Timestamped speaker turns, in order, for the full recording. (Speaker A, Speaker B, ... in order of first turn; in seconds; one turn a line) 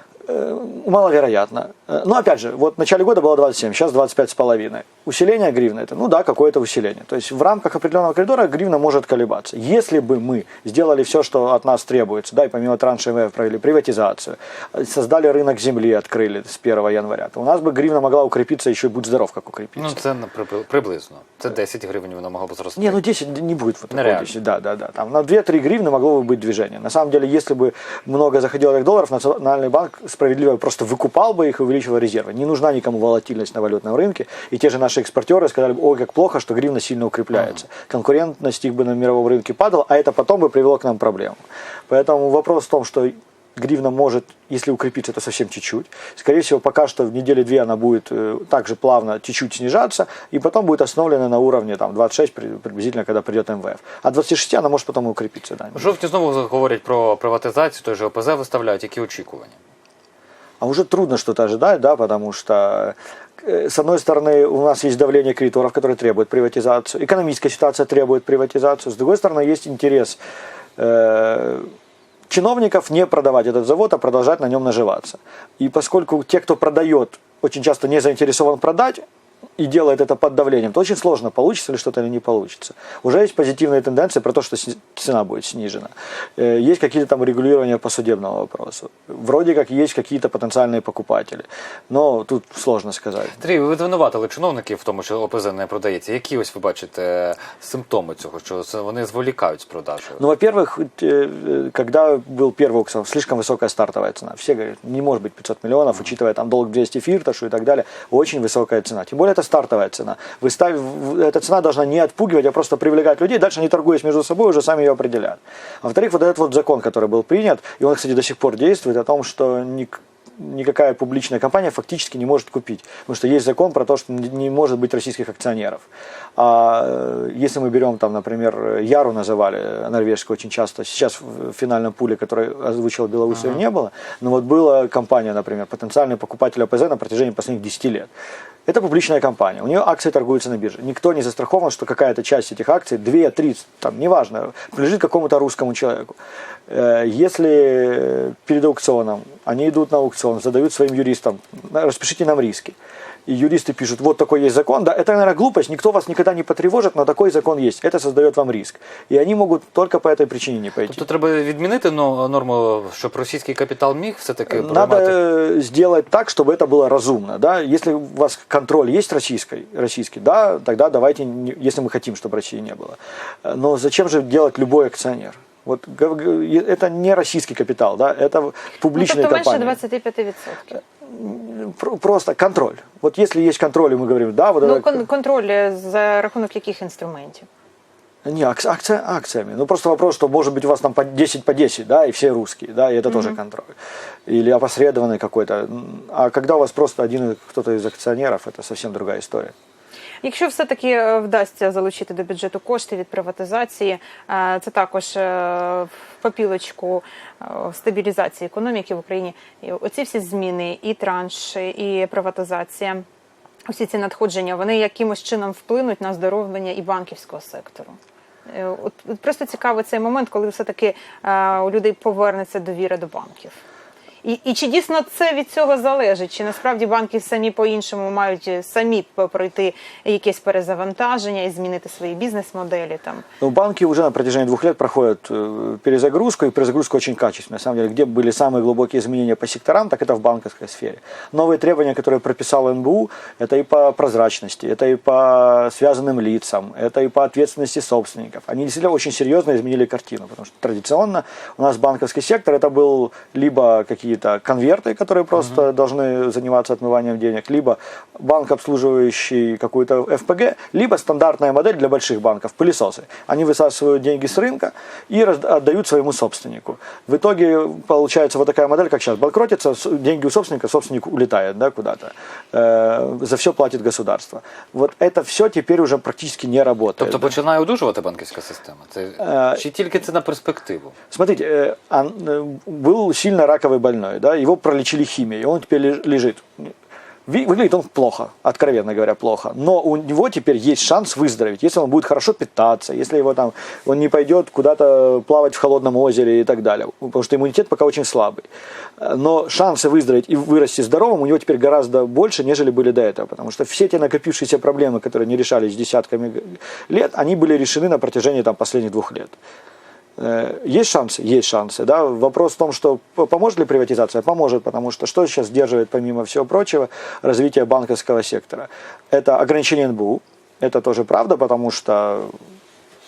Speaker A: 0.2-20.0
Speaker B: 19.8-23.0
Speaker A: 22.8-55.9
Speaker B: 23.9-24.3
Speaker B: 55.7-59.6
Speaker A: 60.6-70.2
Speaker A: 70.8-71.7
Speaker A: 72.3-79.0
Speaker A: 79.6-93.4
Speaker B: 93.4-100.2
Speaker A: 100.2-125.8
Speaker A: 126.4-138.1
Speaker B: 133.3-133.6
Speaker A: 138.7-146.2
Speaker A: 146.7-161.0
Speaker B: 160.9-165.2
Speaker A: 164.5-179.8
Speaker C: 178.9-180.8
Speaker A: 181.0-185.0
Speaker C: 184.6-187.5
Speaker A: 188.2-193.7
Speaker C: 193.1-193.4
Speaker A: 194.3-199.5
Speaker C: 200.2-213.0
Speaker C: 213.7-218.0
Speaker C: 218.5-223.6
Speaker C: 224.2-233.2
Speaker A: 233.4-277.3
Speaker B: 277.0-280.9
Speaker A: 279.2-279.6
Speaker A: 281.1-286.7
Speaker A: 287.3-298.5
Speaker A: 299.0-309.4
Speaker A: 310.2-322.3